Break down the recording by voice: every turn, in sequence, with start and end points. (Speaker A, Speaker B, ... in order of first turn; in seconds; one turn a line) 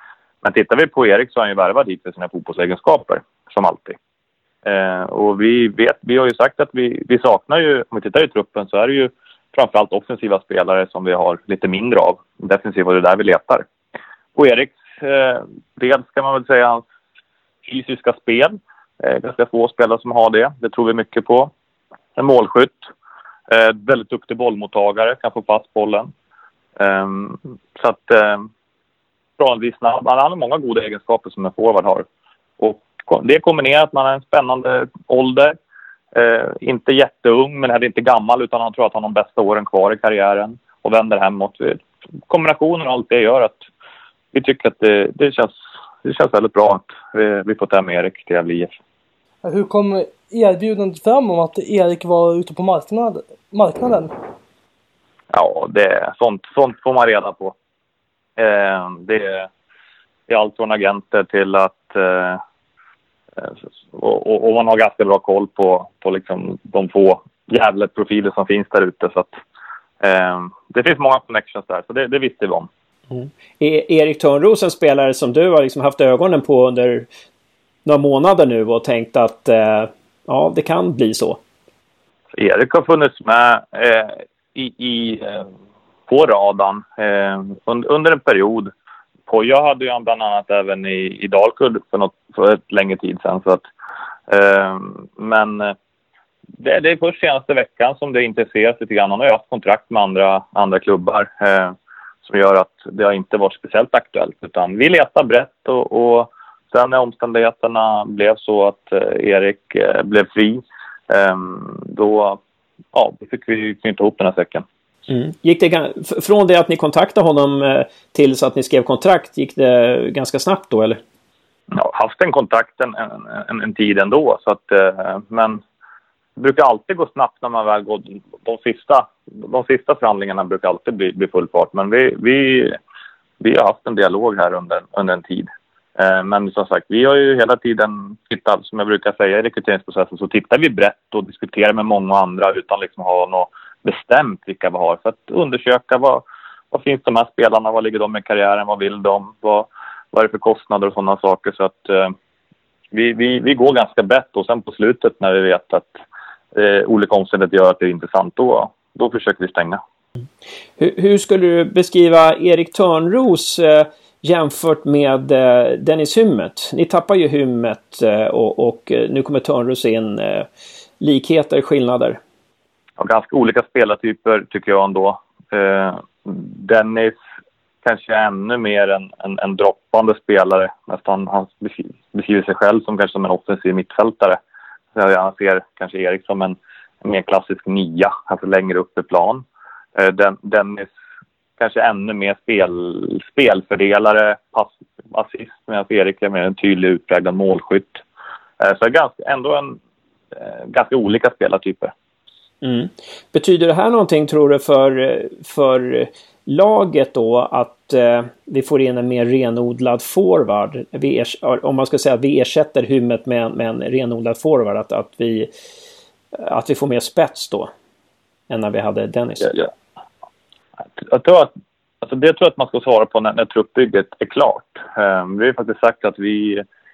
Speaker A: 0.4-4.0
Speaker A: 4.6-13.7
Speaker A: 14.3-16.8
Speaker A: 17.6-21.5
Speaker A: 22.1-22.8
Speaker A: 23.5-26.1
Speaker A: 26.8-28.5
Speaker A: 29.4-32.0
Speaker A: 32.6-35.5
Speaker A: 36.1-43.6
Speaker A: 44.3-48.7
Speaker B: 49.4-54.1
Speaker A: 55.3-57.5
Speaker A: 58.4-59.5
Speaker A: 60.3-62.4
Speaker A: 63.4-69.4
Speaker A: 70.0-72.7
Speaker C: 73.1-77.1
Speaker C: 77.8-81.4
Speaker A: 82.3-85.5
Speaker A: 86.1-88.7
Speaker A: 89.3-93.6
Speaker A: 94.3-95.7
Speaker A: 96.6-112.4
Speaker A: 112.9-114.6
Speaker C: 115.1-121.0
Speaker A: 121.7-125.6
Speaker A: 126.4-132.8
Speaker A: 133.4-152.1
Speaker A: 152.9-155.9
Speaker A: 156.5-159.8
Speaker C: 160.8-170.5
Speaker C: 171.0-172.2
Speaker A: 173.0-177.2
Speaker A: 177.8-184.4
Speaker A: 184.9-189.4
Speaker A: 190.0-190.9
Speaker A: 191.6-198.0
Speaker A: 198.6-199.8
Speaker A: 200.4-201.9
Speaker C: 202.6-215.5
Speaker C: 216.4-217.7
Speaker C: 218.5-219.6
Speaker A: 221.0-221.5
Speaker A: 222.0-226.6